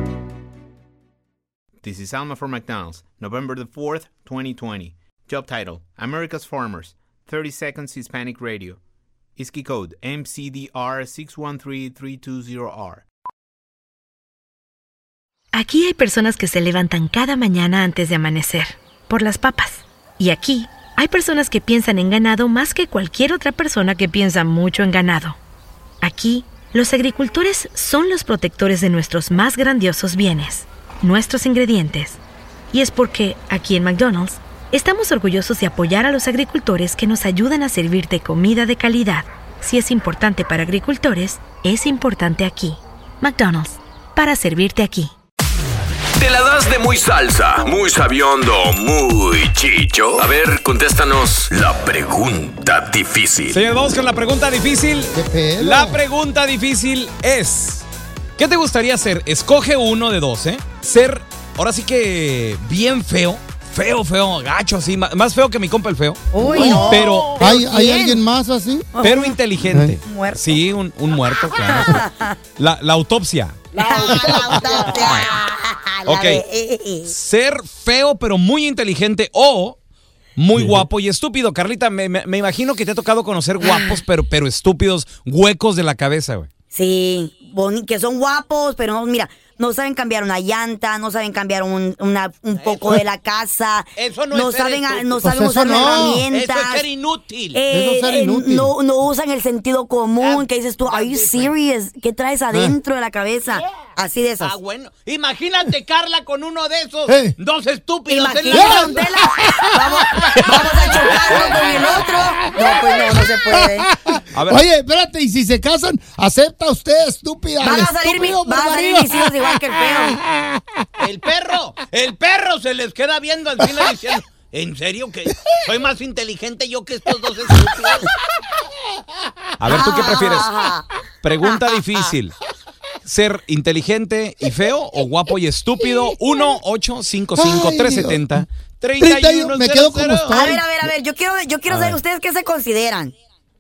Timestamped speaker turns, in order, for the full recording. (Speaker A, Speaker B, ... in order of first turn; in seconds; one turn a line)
Speaker A: 1.8-8.8
Speaker A: 9.4-13.1
Speaker B: 15.5-25.4
Speaker B: 26.0-32.2
Speaker B: 32.7-45.1
Speaker C: 46.2-53.6
Speaker D: 53.5-67.5
Speaker E: 55.1-56.0
Speaker F: 66.3-68.2
Speaker E: 66.4-68.9
Speaker F: 69.0-69.4
Speaker D: 69.0-75.3
Speaker E: 69.7-70.0
Speaker F: 70.0-70.6
Speaker F: 71.6-72.3
Speaker F: 73.8-77.1
Speaker D: 76.1-76.4
Speaker D: 77.1-79.8
Speaker D: 80.4-86.5
Speaker F: 83.6-84.0
Speaker F: 86.7-96.9
Speaker D: 94.0-95.3
Speaker E: 95.2-96.3
Speaker D: 96.3-97.6
Speaker F: 97.5-104.6
Speaker E: 97.7-98.7
Speaker D: 100.2-101.5
Speaker E: 102.5-102.8
Speaker D: 104.4-108.8
Speaker E: 107.1-107.4
Speaker F: 108.1-113.9
Speaker E: 108.5-110.5
Speaker D: 110.9-111.5
Speaker E: 112.6-119.5
Speaker D: 114.3-114.7
Speaker F: 117.6-120.2
Speaker E: 120.2-120.6
Speaker D: 121.0-128.1
Speaker D: 129.6-130.5
Speaker F: 129.7-130.9
Speaker D: 131.2-132.3
Speaker D: 133.0-140.5
Speaker E: 137.4-138.5
Speaker E: 139.0-140.9
Speaker F: 140.3-143.1
Speaker D: 141.7-142.0